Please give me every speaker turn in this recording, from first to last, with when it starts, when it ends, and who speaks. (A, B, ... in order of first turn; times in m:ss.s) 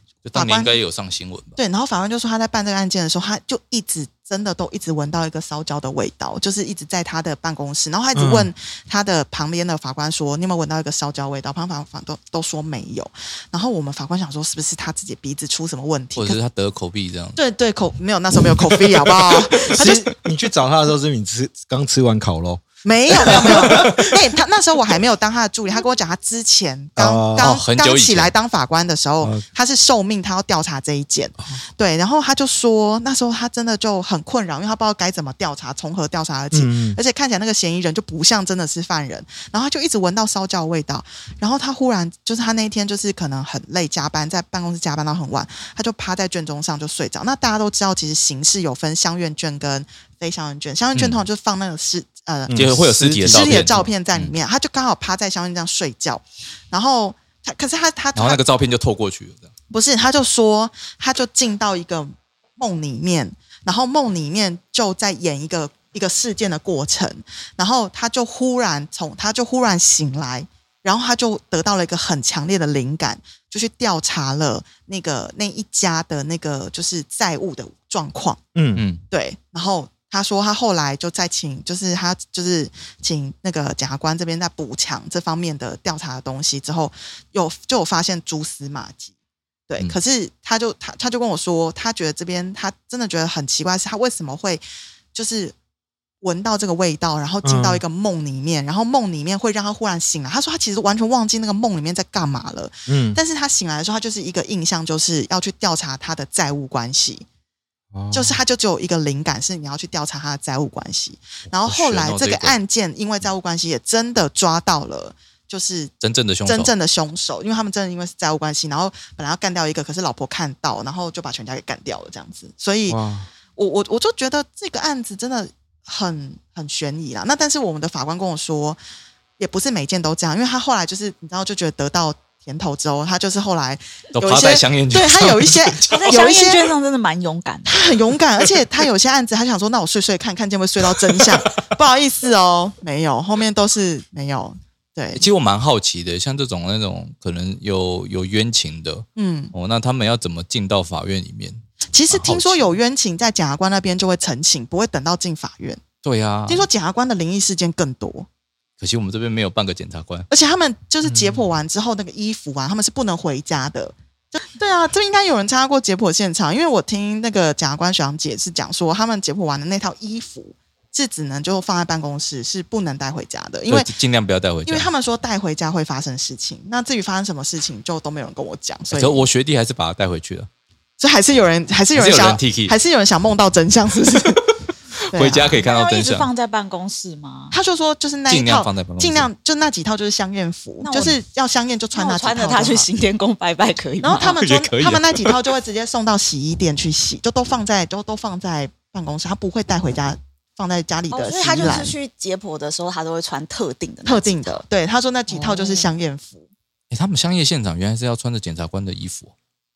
0:00.2-0:01.6 A
0:00.3-0:00.8 B
0:01.6-0:16.4 B
0:08.1-0:08.5 C
0:16.2-0:17.4 A
0:17.4-0:20.1 B
0:19.7-0:22.6 C
0:22.8-0:58.4 B
0:23.2-0:24.0 C
0:23.5-0:23.9 A
0:27.0-0:27.5 C
0:27.4-0:28.3 A
0:36.5-0:37.0 C
0:51.0-0:51.2 A
0:52.5-0:53.9 C
0:52.6-0:54.4 A
0:58.2-0:59.5 A
0:59.7-1:18.4 B
1:18.6-1:18.8 C
1:18.8-1:19.0 A
1:19.1-1:29.1 B
1:29.7-1:34.6 B
1:35.1-1:35.6 B
1:36.2-1:47.3 B
1:37.4-1:37.8 C
1:42.9-1:43.2 C
1:47.9-1:48.4 C
1:48.1-1:55.9 B
1:51.6-1:52.6 A
1:56.0-1:56.7 A
1:56.5-2:03.0 B
2:02.9-2:03.3 C
2:03.6-2:08.8 B
2:09.4-2:16.7 B
2:14.2-2:16.2 A
2:15.9-2:17.9 D
2:17.7-2:25.2 B
2:25.1-2:32.7 A
2:29.2-2:29.5 B
2:31.9-2:35.8 B
2:36.0-2:36.7 A
2:36.5-2:38.3 B
2:38.8-2:40.3 A
2:40.3-2:53.9 B
2:53.7-2:54.9 A
2:54.7-2:59.2 B
2:58.9-3:00.5 A
3:01.0-3:04.5 B
3:02.0-3:02.8 A
3:05.1-3:05.6 B
3:05.1-3:06.3 A
3:05.6-3:07.6 D
3:07.5-3:12.9 B
3:08.3-3:09.3 A
3:10.8-3:11.2 D
3:11.9-3:14.4 D
3:14.0-3:21.9 B
3:14.4-3:15.4 A
3:21.1-3:24.6 D
3:24.0-3:26.5 B
3:25.3-3:25.9 D
3:26.9-3:29.3 A